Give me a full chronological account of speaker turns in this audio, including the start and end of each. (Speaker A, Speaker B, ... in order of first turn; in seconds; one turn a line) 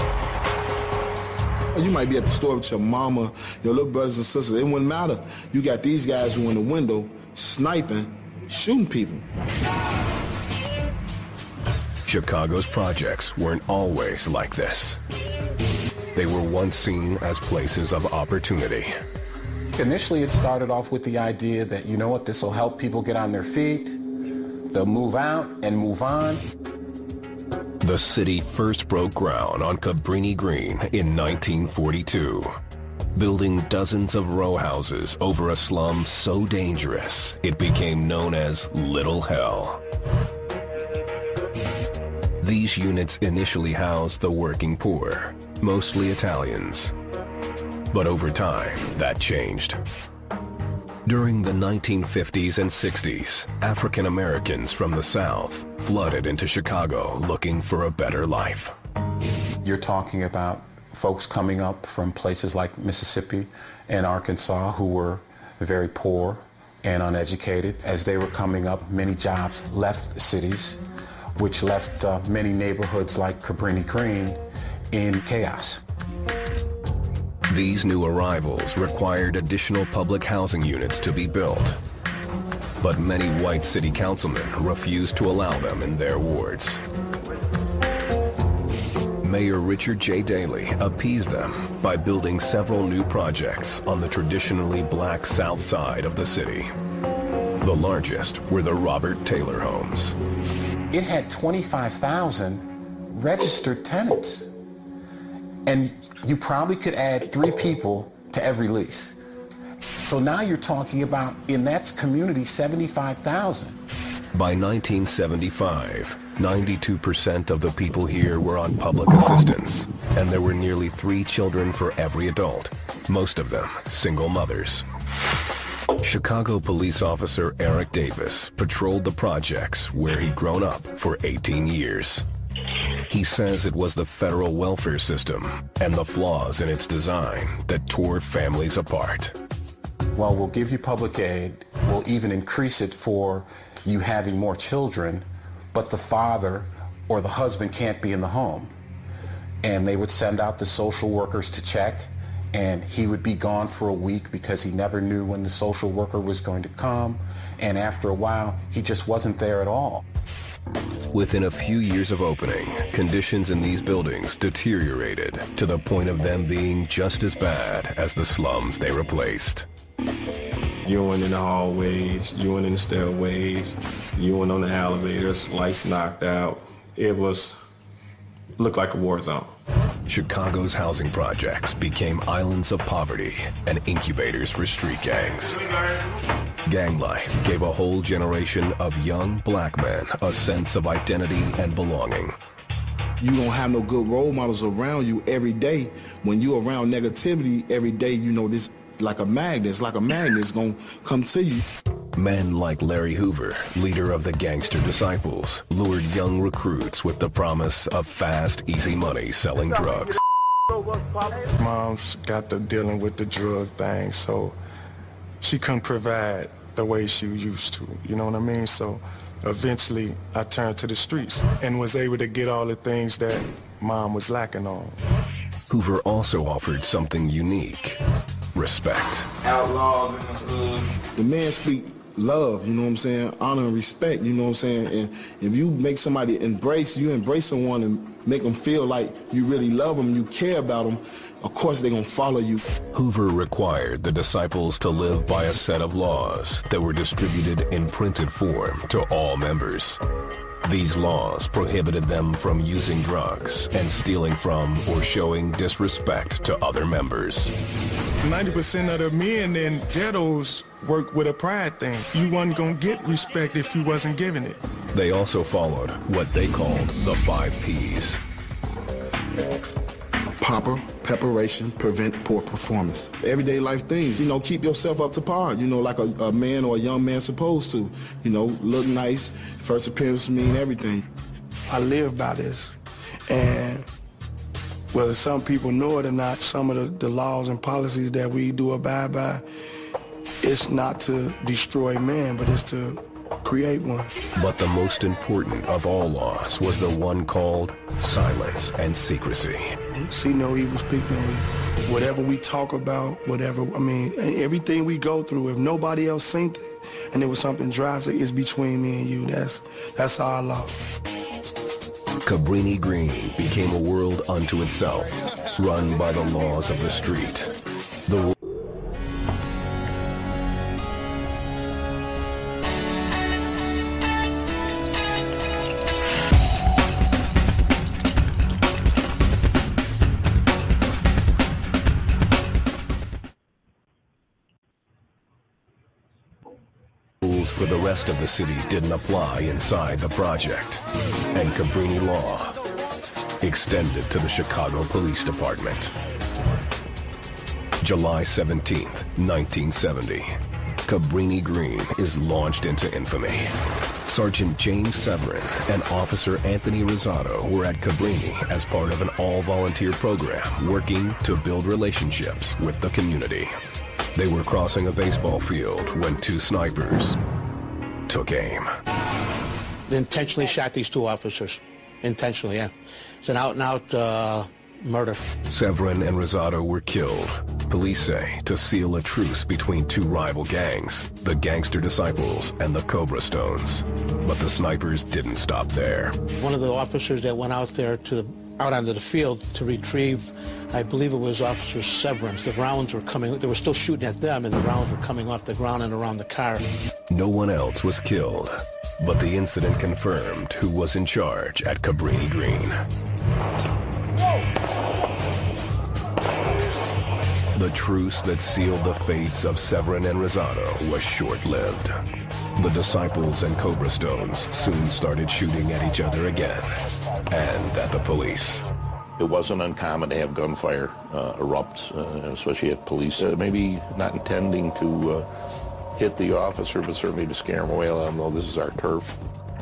Speaker A: 1.7-9.2
Speaker B: 12.1-15.0
Speaker B: 16.1-18.9
Speaker C: 19.8-24.0
Speaker C: 24.7-26.4
Speaker B: 27.8-32.5
Speaker B: 33.1-39.8
Speaker B: 42.4-46.9
Speaker B: 47.9-49.8
Speaker B: 51.1-58.7
Speaker C: 59.6-70.8
Speaker C: 71.4-74.4
Speaker C: 74.9-75.8
Speaker B: 77.5-81.8
Speaker B: 82.8-86.8
Speaker B: 89.2-96.7
Speaker B: 97.6-100.2
Speaker C: 100.9-104.5
Speaker C: 105.7-109.2
Speaker C: 110.0-113.8
Speaker B: 114.3-124.8
Speaker B: 126.0-132.3
Speaker B: 133.1-139.3
Speaker C: 140.1-148.7
Speaker C: 149.6-160.0
Speaker B: 161.1-169.7
Speaker D: 170.8-177.6
Speaker D: 178.6-179.5
Speaker B: 180.1-185.7
Speaker B: 186.6-192.4
Speaker A: 193.2-201.6
Speaker B: 202.1-210.2
Speaker E: 211.5-214.6
Speaker E: 215.4-225.0
Speaker B: 225.7-228.0
Speaker B: 228.6-229.3
Speaker A: 229.5-242.7
Speaker B: 242.9-250.0
Speaker B: 250.6-257.6
Speaker E: 258.2-264.6
Speaker B: 264.9-268.2
Speaker A: 270.4-281.0
Speaker F: 281.7-282.8
Speaker F: 283.3-283.9
Speaker F: 284.9-289.4
Speaker F: 290.4-294.1
Speaker B: 294.4-299.8
Speaker F: 299.9-310.8
Speaker B: 312.2-317.5
Speaker B: 318.1-318.3
Speaker B: 337.2-342.6
Speaker B: 343.4-345.9
Speaker B: 347.8-353.5
Speaker B: 354.1-363.5
Speaker B: 364.1-367.2
Speaker B: 368.1-368.7
Speaker G: 369.9-375.3
Speaker B: 375.5-386.2
Speaker G: 386.3-396.6
Speaker B: 397.1-402.8
Speaker B: 407.6-411.9
Speaker B: 412.6-416.7
Speaker B: 417.3-418.6
Speaker H: 419.2-425.3
Speaker H: 425.9-429.2